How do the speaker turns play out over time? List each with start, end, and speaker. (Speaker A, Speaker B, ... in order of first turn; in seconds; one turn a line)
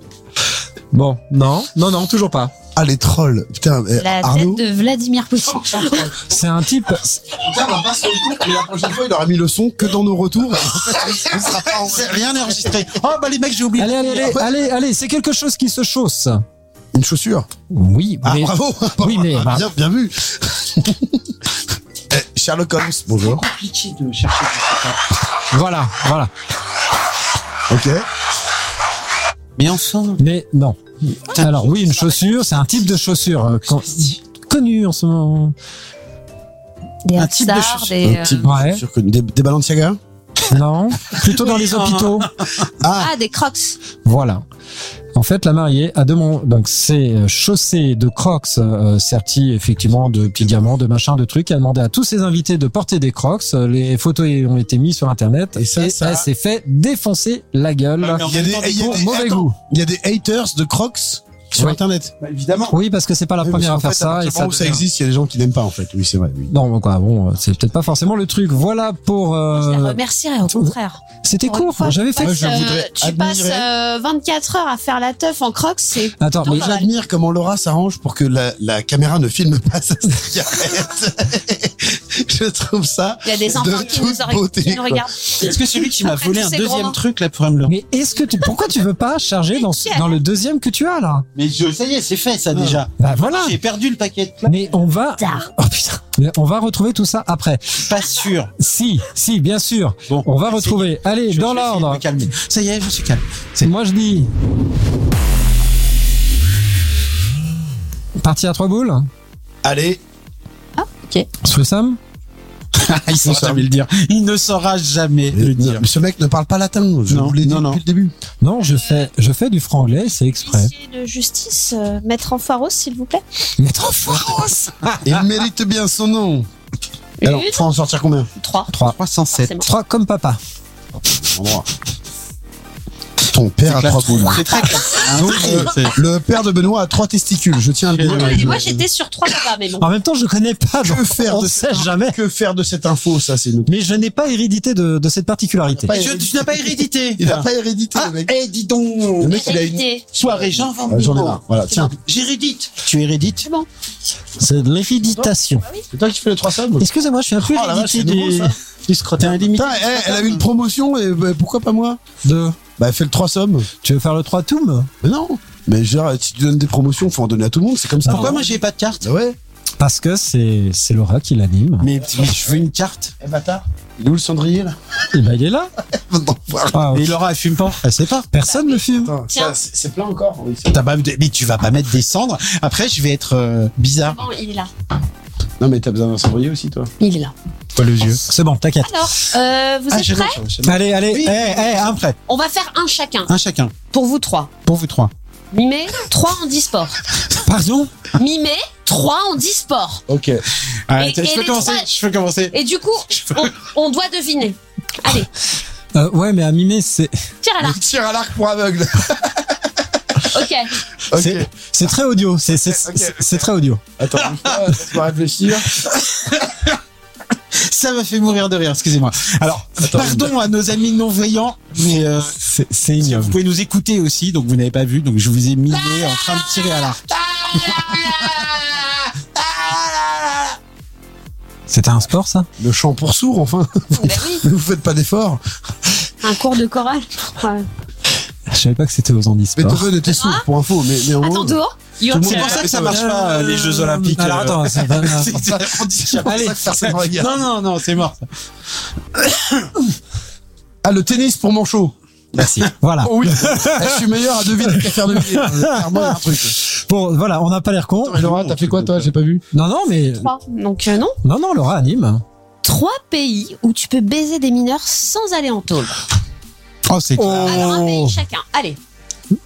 Speaker A: 0.9-2.5
Speaker B: 2.7-4.6
Speaker C: 4.0-6.1
Speaker A: 6.2-7.2
Speaker B: 7.3-12.8
Speaker D: 11.5-14.3
Speaker A: 13.8-16.4
Speaker B: 14.2-14.6
Speaker B: 16.9-17.5
Speaker A: 17.7-19.6
Speaker B: 18.2-21.3
Speaker B: 22.1-23.4
Speaker D: 23.2-25.0
Speaker A: 25.5-26.3
Speaker B: 27.7-28.1
Speaker D: 29.6-30.2
Speaker A: 30.2-35.5
Speaker D: 31.3-32.3
Speaker C: 37.0-38.4
Speaker D: 37.1-37.9
Speaker B: 38.0-40.0
Speaker A: 38.4-38.8
Speaker A: 40.5-42.3
Speaker D: 41.1-42.7
Speaker B: 42.8-43.1
Speaker C: 42.9-43.8
Speaker A: 44.0-44.4
Speaker A: 45.1-59.5
Speaker B: 55.5-56.3
Speaker D: 58.0-59.0
Speaker B: 58.2-62.1
Speaker D: 62.2-62.8
Speaker A: 62.7-64.8
Speaker B: 63.4-66.5
Speaker A: 66.5-72.7
Speaker C: 69.5-76.9
Speaker B: 72.2-73.7
Speaker A: 76.2-76.7
Speaker B: 76.4-85.0
Speaker C: 83.2-87.0
Speaker D: 85.4-87.7
Speaker A: 87.7-91.2
Speaker C: 89.5-90.2
Speaker D: 91.3-94.7
Speaker B: 92.5-92.8
Speaker A: 93.0-93.6
Speaker A: 94.5-97.8
Speaker C: 95.2-95.5
Speaker D: 97.7-98.5
Speaker A: 98.6-102.0
Speaker D: 100.1-103.7
Speaker A: 103.6-104.3
Speaker A: 108.2-109.1
Speaker B: 109.6-110.0
Speaker C: 110.8-111.3
Speaker A: 111.4-112.0
Speaker D: 112.7-115.8
Speaker B: 113.2-113.6
Speaker B: 115.3-118.1
Speaker D: 117.1-117.8
Speaker A: 118.4-120.7
Speaker C: 118.6-119.0
Speaker C: 120.4-123.2
Speaker A: 123.6-125.1
Speaker B: 125.0-126.5
Speaker C: 127.2-127.6
Speaker B: 127.2-128.3
Speaker C: 128.4-128.7
Speaker A: 128.7-128.9
Speaker D: 128.8-129.6
Speaker C: 129.4-129.7
Speaker A: 129.6-130.4
Speaker B: 131.2-131.7
Speaker B: 133.2-134.5
Speaker D: 133.7-136.0
Speaker B: 135.2-138.8
Speaker D: 137.9-138.8
Speaker C: 138.1-139.9
Speaker A: 139.8-142.2
Speaker B: 140.8-143.7
Speaker A: 143.7-145.9
Speaker B: 145.7-148.3
Speaker D: 145.9-149.5
Speaker B: 149.2-149.8
Speaker C: 149.3-150.1
Speaker D: 150.1-153.4
Speaker B: 150.8-151.9
Speaker A: 154.4-155.6
Speaker B: 155.9-156.9
Speaker A: 156.8-158.5
Speaker B: 157.4-158.5
Speaker D: 158.9-160.4
Speaker B: 159.2-162.0
Speaker A: 162.2-162.6
Speaker B: 162.8-163.7
Speaker A: 163.8-164.9
Speaker B: 165.0-169.4
Speaker D: 168.0-169.0
Speaker A: 169.8-171.9
Speaker D: 171.8-173.1
Speaker B: 173.2-174.8
Speaker A: 175.1-175.7
Speaker B: 175.9-176.8
Speaker A: 176.7-177.1
Speaker D: 176.9-178.3
Speaker A: 178.3-179.1
Speaker C: 178.4-179.5
Speaker B: 178.9-180.8
Speaker D: 180.7-184.2
Speaker C: 184.0-184.7
Speaker B: 185.6-186.9
Speaker C: 187.0-187.3
Speaker D: 187.8-188.2
Speaker A: 188.2-188.9
Speaker C: 188.8-190.4
Speaker D: 189.9-192.2
Speaker A: 190.6-192.0
Speaker C: 192.3-193.3
Speaker D: 193.3-193.7
Speaker C: 193.9-194.5
Speaker D: 194.6-195.1
Speaker C: 195.5-197.0
Speaker A: 197.4-197.9
Speaker C: 198.2-200.0
Speaker B: 200.1-200.4
Speaker D: 200.9-202.5
Speaker C: 201.0-201.9
Speaker C: 202.5-205.3
Speaker D: 203.1-203.5
Speaker A: 205.9-207.1
Speaker C: 207.4-207.8
Speaker B: 207.6-209.7
Speaker C: 210.3-210.7
Speaker B: 211.1-211.5
Speaker D: 211.2-211.5
Speaker A: 211.7-213.8
Speaker B: 212.7-215.8
Speaker D: 215.9-216.7
Speaker D: 217.5-222.4
Speaker B: 219.8-220.3
Speaker A: 222.4-223.3
Speaker D: 223.0-228.4
Speaker B: 227.3-230.5
Speaker A: 231.7-232.5
Speaker B: 232.6-235.4
Speaker C: 234.0-234.4
Speaker C: 236.2-237.7
Speaker A: 238.5-239.9
Speaker B: 239.6-243.0
Speaker C: 240.1-240.4
Speaker C: 241.2-242.7
Speaker D: 242.1-248.2
Speaker A: 242.9-245.3
Speaker B: 245.3-247.4
Speaker A: 246.2-246.6
Speaker D: 249.2-249.7
Speaker B: 250.8-251.9
Speaker A: 252.4-254.0
Speaker B: 253.0-256.6
Speaker A: 254.6-258.2
Speaker B: 258.0-259.4
Speaker D: 258.2-259.1
Speaker A: 259.5-260.3
Speaker C: 260.2-261.1
Speaker A: 261.2-262.2
Speaker C: 262.6-266.0
Speaker D: 266.9-268.0
Speaker A: 267.2-268.2
Speaker C: 267.4-268.8